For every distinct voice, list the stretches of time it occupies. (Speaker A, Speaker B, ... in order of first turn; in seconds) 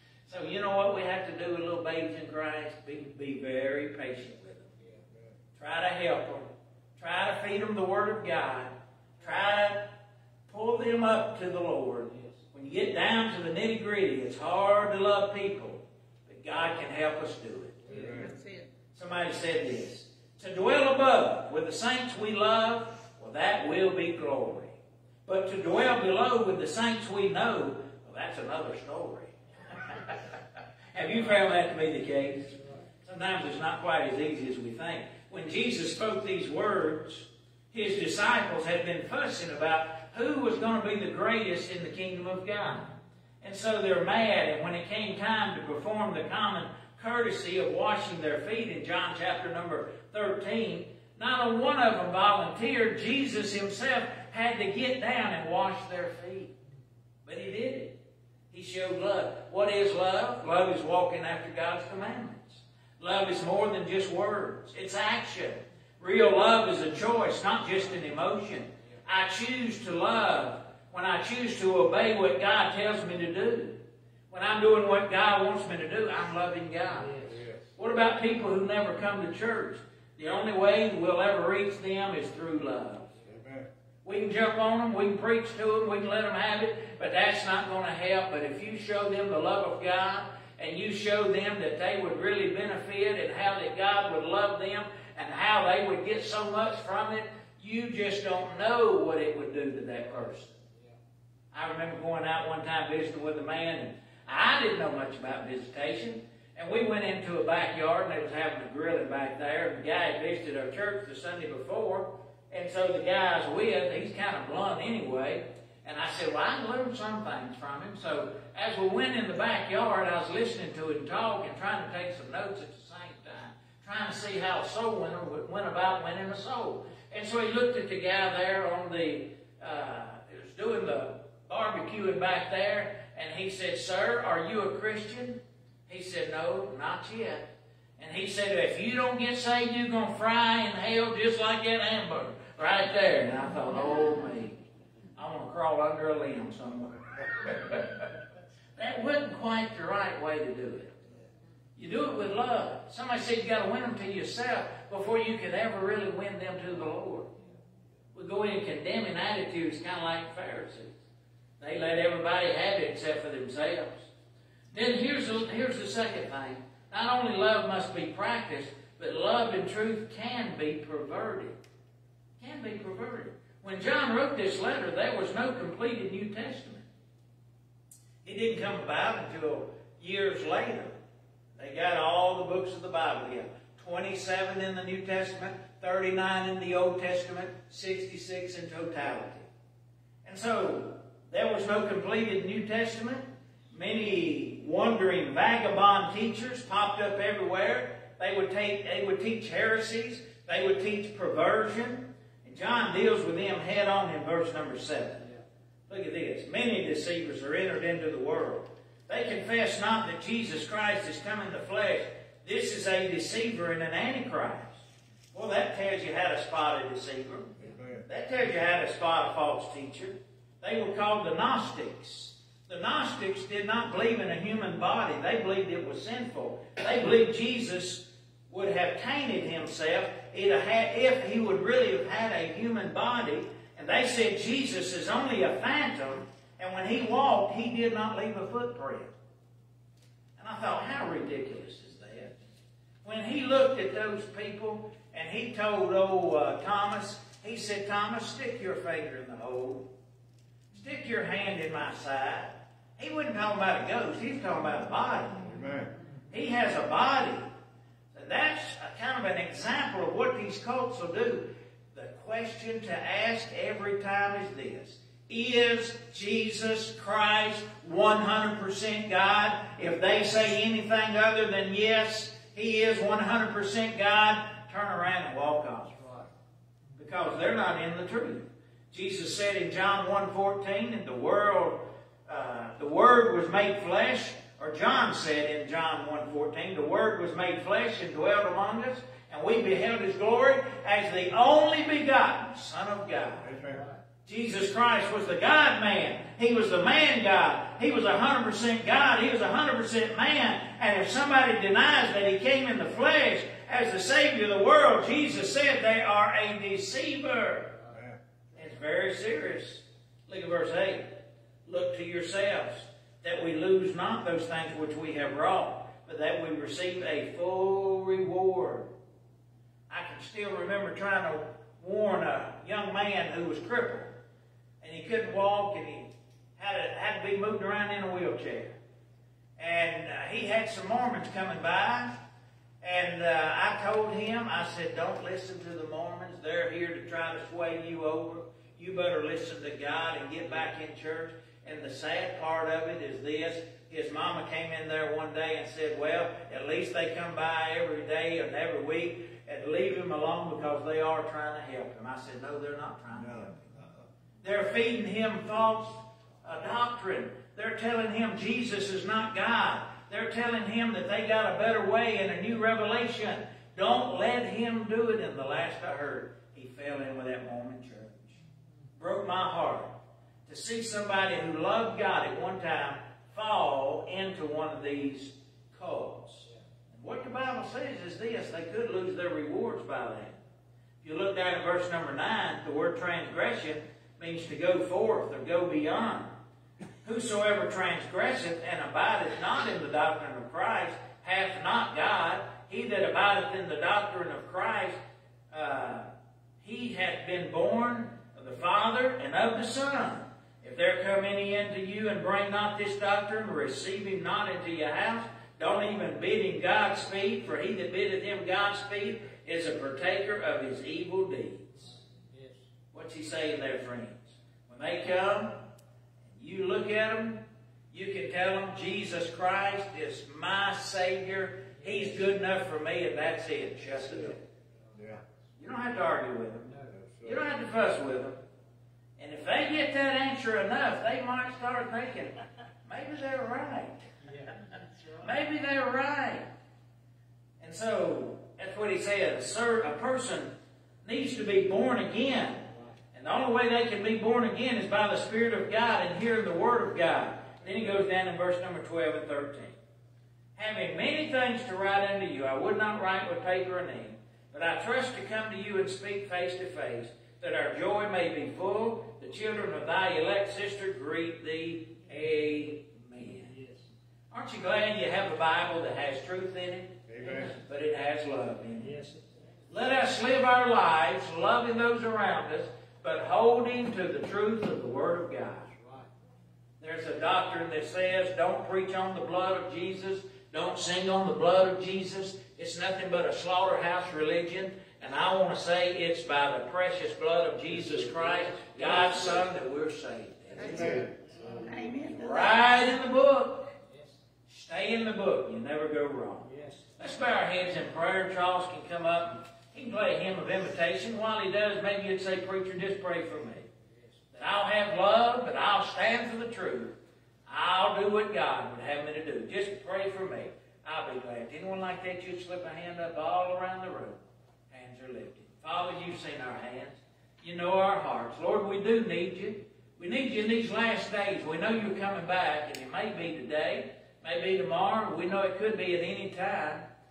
Speaker A: 0.3-4.7, 5.6-9.9, 10.5-17.8, 18.9-30.2, 30.9-56.5, 57.2-58.0, 58.5-77.2, 77.8-83.1, 84.0-100.5, 101.5-137.5, 138.0-144.6, 145.2-148.0, 148.8-151.0, 151.8-157.3, 158.1-160.9, 161.6-164.1, 164.7-171.6, 172.4-176.8, 178.2-180.9, 181.6-189.5, 190.2-205.2, 205.9-217.5, 218.1-239.1, 240.4-242.3, 243.0-249.9, 250.7-255.4, 256.3-257.5, 258.1-276.0, 276.9-293.5, 294.2-307.8, 308.5-318.9, 319.9-324.1, 324.8-328.8, 329.6-332.2, 332.8-353.7, 354.4-368.4, 368.9-380.4, 381.0-386.3, 387.0-395.0, 395.5-396.1, 396.6-411.9, 412.9-415.7, 416.3-424.4, 425.6-428.4, 429.2-434.3, 435.2-436.5, 437.6-449.8, 450.6-463.6, 464.3-469.0, 469.7-475.7, 476.8-491.0, 492.1-493.7, 494.5-503.7, 504.3-526.9
Speaker B: 12.0-12.4, 17.9-18.2, 77.0-77.4, 275.9-276.3, 293.6-294.0, 411.8-412.6, 421.8-422.3, 434.2-435.3, 442.7-443.0, 463.5-463.9, 468.8-469.3, 475.8-476.1, 493.9-494.2, 496.4-496.9, 503.8-504.2
Speaker C: 17.9-18.3, 77.2-77.6, 83.2-83.7, 217.6-218.0, 255.4-255.9, 293.4-293.8, 307.9-308.2, 353.1-354.1, 424.9-425.2, 426.9-427.4, 467.1-467.5, 490.6-491.8
Speaker D: 18.1-18.7, 490.5-491.0, 491.6-492.6